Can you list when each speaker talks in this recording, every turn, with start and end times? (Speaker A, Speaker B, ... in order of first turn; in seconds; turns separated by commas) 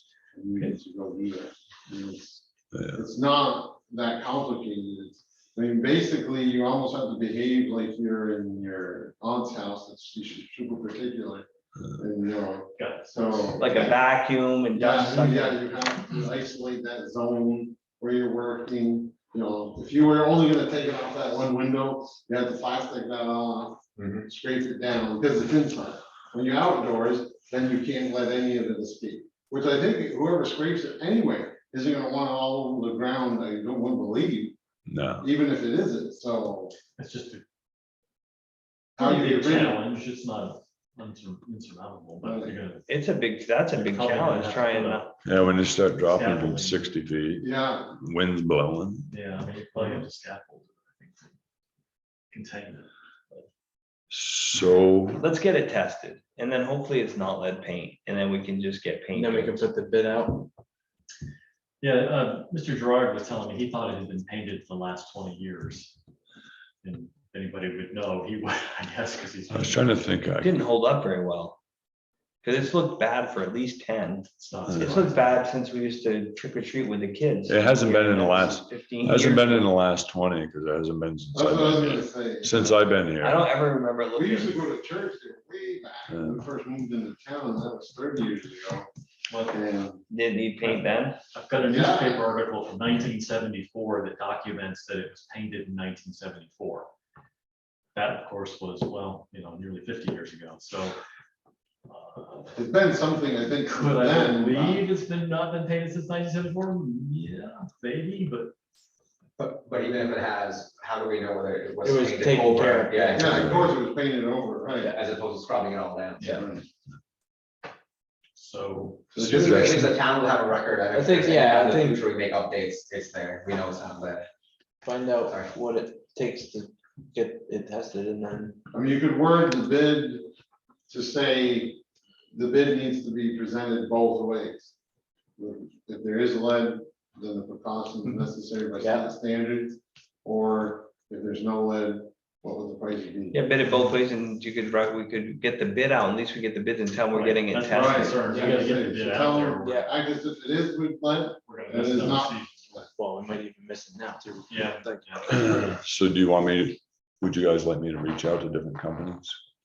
Speaker A: 0.3-14.0, Speaker B: 2.7-3.0, Speaker C: 12.8-13.6, Speaker D: 13.6-15.6, Speaker A: 14.7-34.5, Speaker E: 24.0-24.2, Speaker B: 34.9-35.3, Speaker A: 35.2-36.7, Speaker C: 37.0-37.4, Speaker A: 39.0-39.8, Speaker C: 39.0-42.9, Speaker A: 42.2-42.6, Speaker D: 42.9-45.0, Speaker C: 43.7-46.9, Speaker B: 45.2-47.5, Speaker A: 47.4-48.0, Speaker B: 48.0-49.1, Speaker C: 49.1-51.3, Speaker C: 52.3-53.5, Speaker B: 54.1-55.2, Speaker D: 55.2-59.6, Speaker F: 59.1-60.5, Speaker C: 61.8-66.0, Speaker C: 66.8-70.1, Speaker B: 69.5-70.6, Speaker D: 70.4-71.6, Speaker D: 72.4-79.7, Speaker C: 74.3-75.2, Speaker B: 74.7-75.0, Speaker B: 77.5-83.5, Speaker A: 81.3-82.8, Speaker D: 83.2-84.7, Speaker A: 84.1-88.9, Speaker B: 86.1-86.4, Speaker C: 89.3-89.6, Speaker A: 89.4-90.0, Speaker D: 90.1-91.2, Speaker C: 90.6-96.9, Speaker A: 91.6-92.3, Speaker C: 97.9-101.0, Speaker C: 101.9-102.5, Speaker A: 102.5-104.9, Speaker C: 103.7-108.5, Speaker E: 109.4-113.7, Speaker F: 111.8-113.7, Speaker A: 113.1-114.9, Speaker E: 114.8-116.4, Speaker C: 116.2-116.5, Speaker A: 116.3-116.6, Speaker C: 118.3-119.1, Speaker A: 119.1-119.8, Speaker B: 119.2-119.9, Speaker E: 119.2-124.3, Speaker F: 120.9-122.1, Speaker F: 124.8-128.6, Speaker E: 125.3-125.5, Speaker A: 128.7-130.3, Speaker A: 130.9-134.7, Speaker A: 135.4-143.4, Speaker F: 138.8-139.1, Speaker D: 143.3-148.2, Speaker C: 147.1-149.8, Speaker A: 147.7-152.9, Speaker F: 148.2-148.6, Speaker F: 149.6-149.9, Speaker C: 151.5-152.6, Speaker F: 152.9-155.7, Speaker C: 154.5-155.6, Speaker B: 155.3-159.4